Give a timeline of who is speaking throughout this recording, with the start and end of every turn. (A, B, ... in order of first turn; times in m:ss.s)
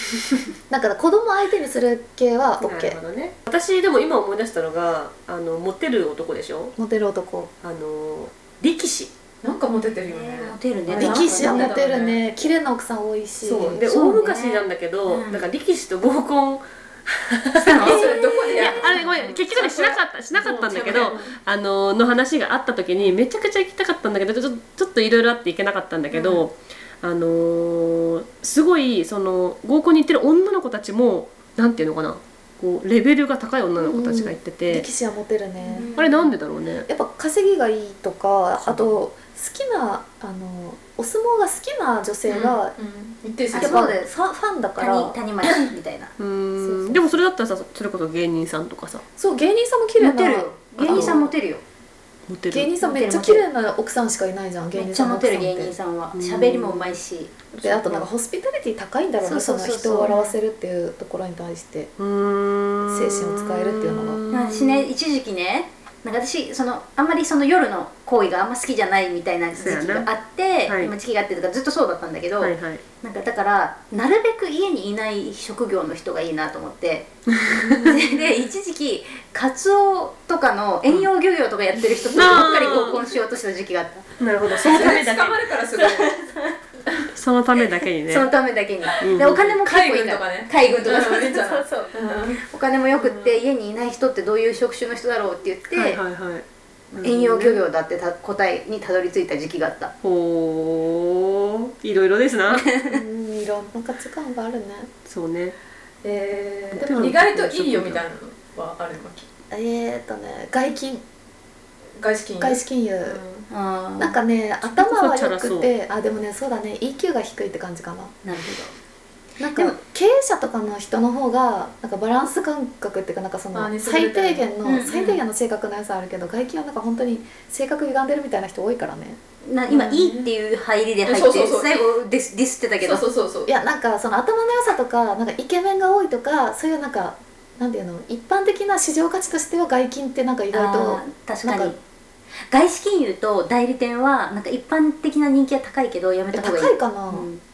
0:00.7-0:03.0 A
0:02.6-0:06.7 B
0:06.8-0:07.5 A
0:07.6-0:09.1 B
0:09.4-0:12.2 C
0:10.1-0:11.8 D
0:10.9-0:13.8 A
0:13.4-0:34.9 B
0:13.8-0:15.4 D
0:17.6-0:19.0 D
0:17.7-0:21.3 C
0:33.8-0:35.9 A
0:35.6-0:36.3 D
0:36.0-0:36.9 B
0:36.9-0:42.8 A
0:42.3-0:43.9 C
0:43.5-0:44.1 D
0:43.5-0:45.2 A
0:44.8-0:46.1 D
0:46.2-0:49.0 B
0:46.6-0:47.2 A
0:49.2-0:51.2 A
0:50.0-0:51.6 D
0:50.8-0:51.2 B
0:52.3-0:52.7 B
0:52.5-0:55.7 A
0:52.8-0:53.4 D
0:54.7-0:58.1 D
0:56.1-0:57.0 B
0:57.6-1:01.9 A
0:59.2-1:00.2 D
1:02.0-1:04.9 B
1:02.9-1:04.2 A
1:04.3-1:17.1 D
1:09.6-1:10.1 B
1:10.6-1:10.9 B
1:12.4-1:12.8 B
1:17.4-1:17.9 B
1:17.8-1:24.1 D
1:22.1-1:23.0 B
1:22.2-1:22.8 C
1:24.2-1:25.4 B
1:24.6-1:26.2 C
1:24.7-1:24.9 D
1:26.2-1:26.5 D
1:27.1-1:28.3 B
1:28.1-1:36.0 D
1:29.0-1:29.5 B
1:29.6-1:32.4 C
1:32.9-1:33.4 C
1:35.7-1:37.6 B
1:37.0-1:39.9 D
1:40.0-1:42.7 B
1:42.5-1:43.0 D
1:42.9-1:44.9 A
1:45.0-1:45.6 B
1:46.0-1:49.3 C
1:46.7-1:48.0 B
1:49.5-1:51.0 A
1:52.0-1:53.4 C
1:52.4-1:53.2 A
1:53.5-1:54.2 D
1:54.0-1:58.1 A
1:54.6-1:55.7 B
1:58.2-1:58.7 D
1:59.4-2:09.2 A
2:03.5-2:04.5 C
2:04.6-2:05.2 D
2:09.4-2:13.0 D
2:09.7-2:10.3 C
2:11.0-2:11.8 C
2:12.8-2:13.5 C
2:13.5-2:21.7 A
2:20.5-2:21.8 D
2:22.5-2:27.4 D
2:26.3-2:27.3 A